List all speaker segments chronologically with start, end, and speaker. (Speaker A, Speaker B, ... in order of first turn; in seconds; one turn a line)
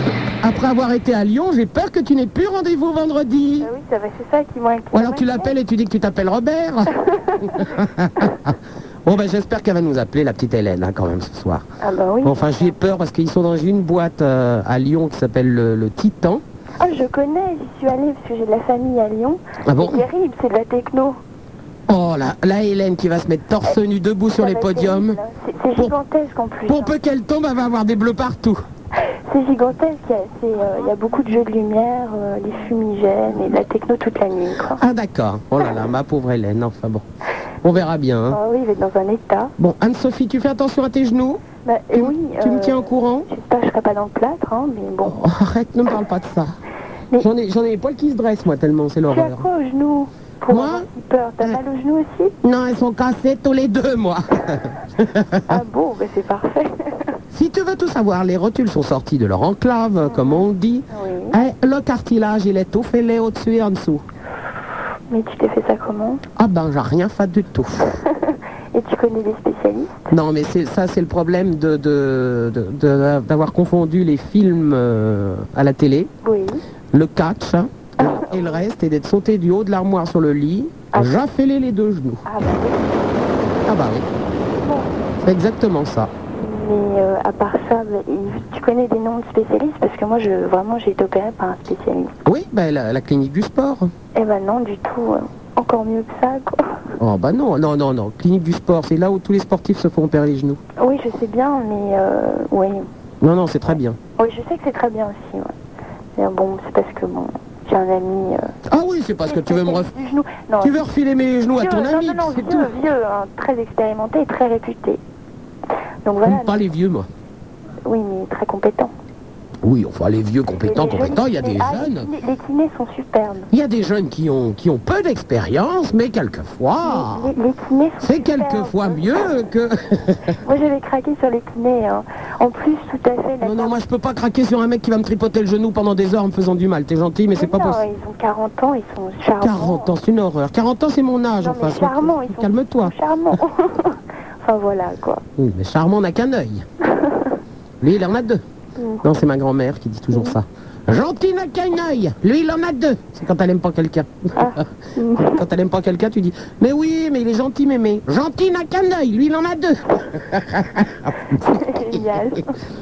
Speaker A: 0.4-3.7
Speaker B: 3.6-5.5
Speaker A: 4.9-6.9
Speaker A: 7.5-8.5
Speaker A: 9.1-11.6
Speaker B: 11.8-12.7
Speaker A: 12.2-16.4
Speaker B: 16.8-21.2
Speaker A: 19.7-20.1
Speaker A: 21.9-25.2
Speaker B: 24.3-26.9
Speaker A: 26.7-28.6
Speaker B: 29.3-34.8
Speaker A: 34.8-37.0
Speaker A: 37.6-38.4
Speaker B: 38.3-39.5
Speaker A: 39.6-43.3
Speaker B: 41.6-45.1
Speaker A: 45.0-46.5
Speaker A: 47.2-49.5
Speaker B: 49.1-52.3
Speaker A: 50.5-50.9
Speaker A: 52.4-55.6
Speaker B: 55.5-56.9
Speaker A: 57.3-64.0
Speaker B: 60.0-61.3
Speaker B: 65.1-66.2
Speaker A: 66.4-68.0
Speaker B: 68.1-69.9
Speaker A: 70.1-76.1
Speaker B: 76.2-76.6
Speaker A: 76.9-82.2
Speaker B: 78.0-78.6
Speaker B: 80.9-81.2
Speaker B: 82.2-82.8
Speaker A: 83.6-84.1
Speaker B: 84.6-84.9
Speaker A: 85.2-86.1
Speaker B: 86.3-92.1
Speaker A: 92.2-93.9
Speaker B: 94.1-96.6
Speaker A: 97.0-100.6
Speaker B: 100.8-102.8
Speaker A: 103.2-104.0
Speaker B: 104.2-105.5
Speaker B: 106.2-108.5
Speaker A: 108.7-109.9
Speaker B: 109.2-110.8
Speaker A: 110.6-112.7
Speaker B: 111.6-115.0
Speaker B: 116.0-116.6
Speaker A: 116.2-117.1
Speaker B: 117.8-118.9
Speaker A: 119.6-122.1
Speaker B: 120.6-123.5
Speaker A: 123.5-127.3
Speaker B: 126.8-129.0
Speaker A: 128.0-130.2
Speaker B: 130.4-133.8
Speaker A: 133.4-137.8
Speaker B: 137.3-139.9
Speaker A: 139.4-142.9
Speaker B: 141.4-145.2
Speaker A: 145.4-146.6
Speaker A: 147.8-148.4
Speaker B: 148.8-149.0
Speaker A: 149.0-154.5
Speaker B: 154.4-155.4
Speaker A: 155.2-162.3
Speaker B: 161.5-162.4